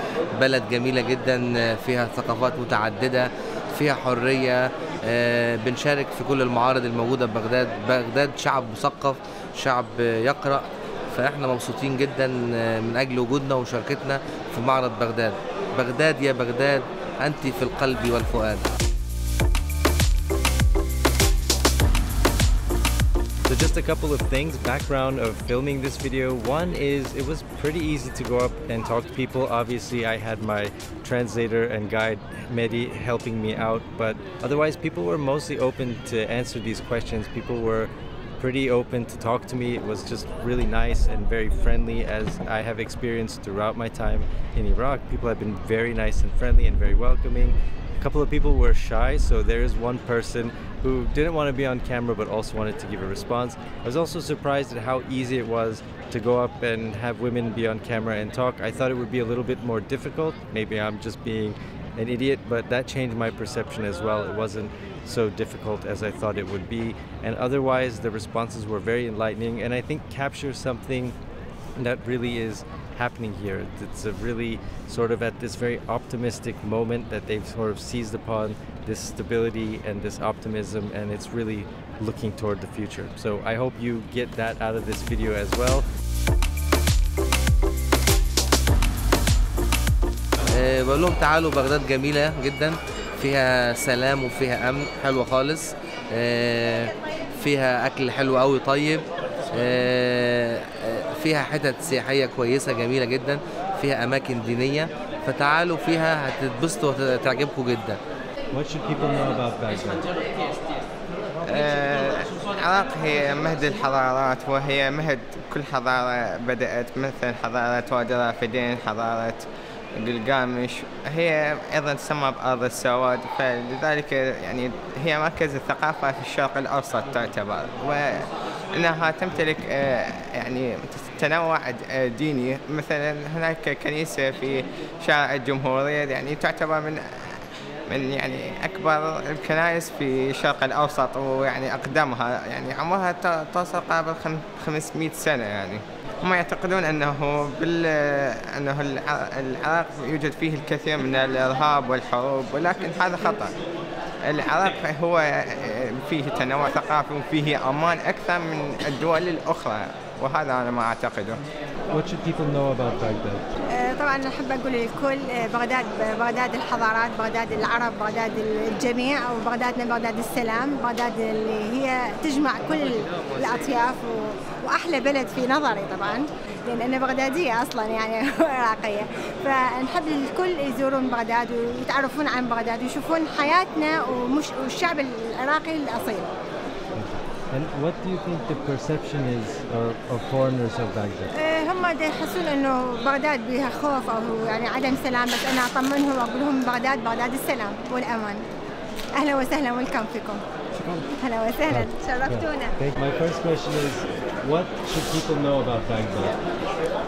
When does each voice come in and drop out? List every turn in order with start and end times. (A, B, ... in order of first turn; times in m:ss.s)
0:00.4-0:18.7 A
0:23.5-1:11.1 B
1:11.8-1:25.8 B
1:30.5-1:48.0 A
1:48.5-1:50.0 B
1:51.5-2:33.5 C
2:34.2-2:41.4 C
2:41.9-2:43.4 B
2:43.9-2:52.8 D
2:53.4-3:06.2 D
3:06.9-3:11.3 B
3:12.3-3:18.4 D
3:19.2-3:20.4 D
3:21.2-3:22.7 D
3:21.7-3:26.4 B